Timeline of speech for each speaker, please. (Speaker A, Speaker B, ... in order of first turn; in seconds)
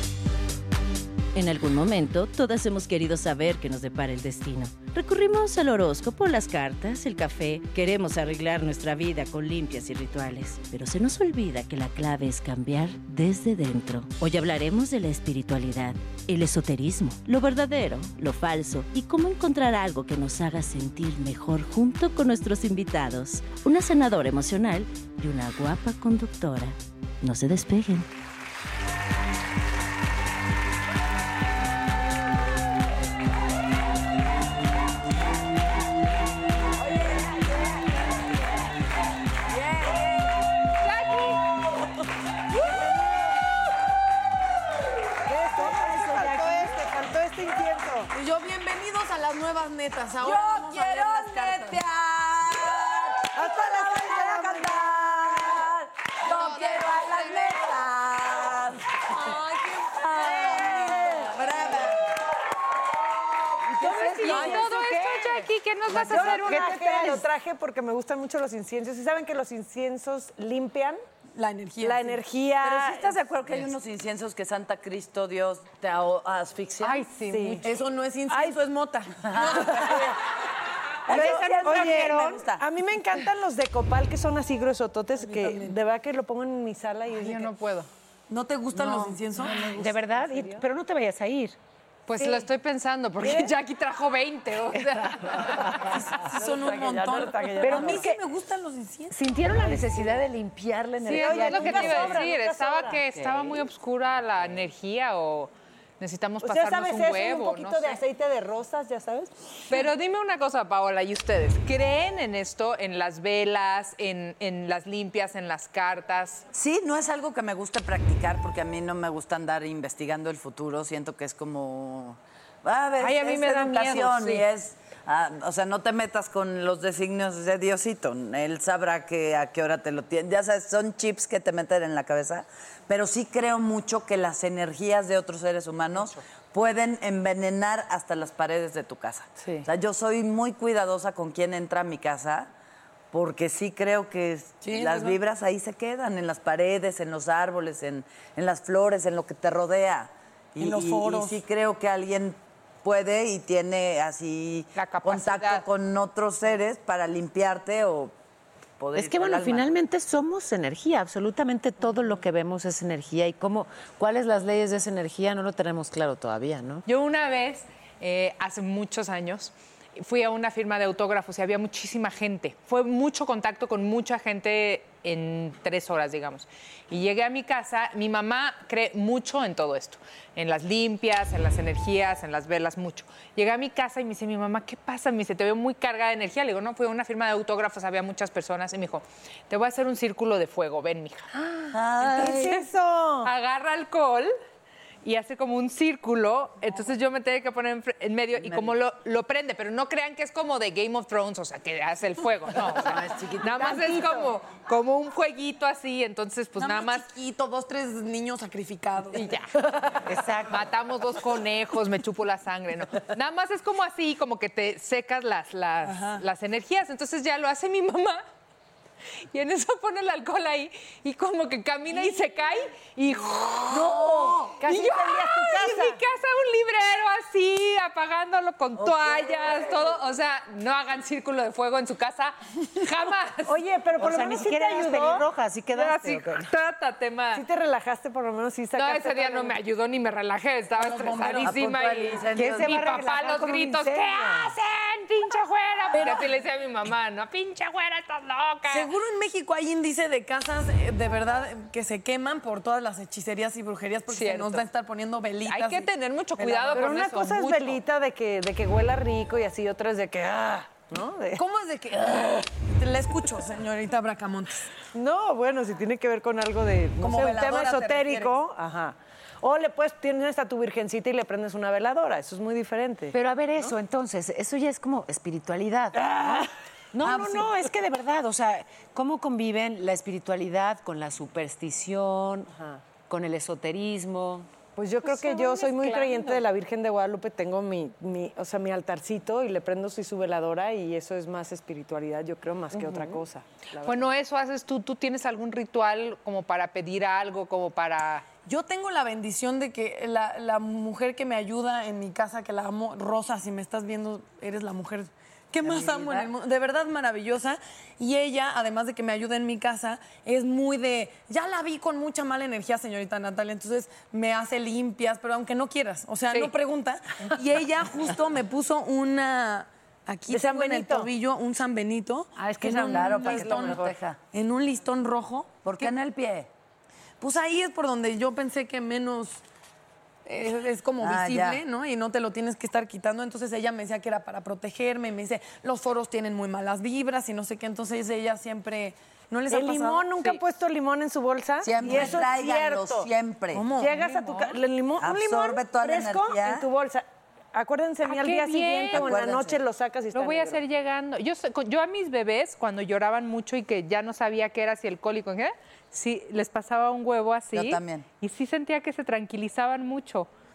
Speaker A: 1.3-28.1
Speaker B: 36.8-38.0, 39.5-40.4, 50.2-58.9, 59.9-62.0, 63.5-64.6, 72.6-77.1, 79.2-80.2, 81.1-82.6, 96.4-98.0, 116.5-142.5, 143.1-158.1, 158.8-159.7, 191.7-192.6, 202.8-203.4, 241.4-242.8, 305.6-306.3, 322.6-324.2, 325.6-326.5, 331.0-331.6, 341.6-343.7, 345.0-346.6, 348.9-349.6, 357.5-358.1
Speaker C: 40.8-41.5, 64.2-66.8, 76.8-77.6, 87.2-87.9, 92.1-95.9, 101.1-108.0, 109.7-116.5, 123.0-124.5, 154.8-155.7, 166.9-191.3, 193.2-194.3, 195.0-207.1, 209.1-218.2, 219.3-233.6, 235.7-237.4, 238.8-248.9, 254.1-254.7, 255.4-257.8, 293.8-298.2, 343.9-344.6, 348.0-349.1, 350.1-360.3
Speaker D: 45.3-48.1, 53.3-54.8, 63.9-65.3, 65.9-71.0, 71.8-73.1, 77.2-77.7, 78.3-78.6, 81.1-87.5, 89.6-90.6, 92.2-92.5, 93.2-93.5, 96.7-98.1, 99.4-100.2, 101.0-103.4, 106.4-109.8, 192.0-193.3, 223.7-226.0, 233.4-235.3, 237.3-239.5, 256.7-261.4, 264.9-273.7, 276.0-276.5, 284.8-294.1, 320.3-321.1, 339.5-343.1, 343.8-350.6
Speaker E: 45.3-46.7, 48.1-51.8, 59.2-61.8, 64.2-64.6, 66.2-66.6, 71.3-72.2, 77.6-80.2, 85.2-85.8, 88.3-89.9, 96.0-99.6, 144.6-145.2, 150.6-151.4, 206.6-209.3, 215.8-216.2, 240.8-241.6, 248.7-256.9, 261.3-264.7, 267.0-268.3, 277.1-277.5, 298.4-325.9, 327.2-329.4, 330.2-340.1, 343.5-343.9
Speaker F: 66.2-67.2, 89.7-91.6, 95.0-95.8, 97.6-98.1, 99.1-102.3, 103.2-103.6, 158.9-166.8, 203.4-204.0, 210.1-210.7, 234.0-236.5, 242.3-244.3, 273.1-276.4, 276.9-284.5, 285.0-286.4, 292.7-293.2, 320.3-320.9, 322.4-323.9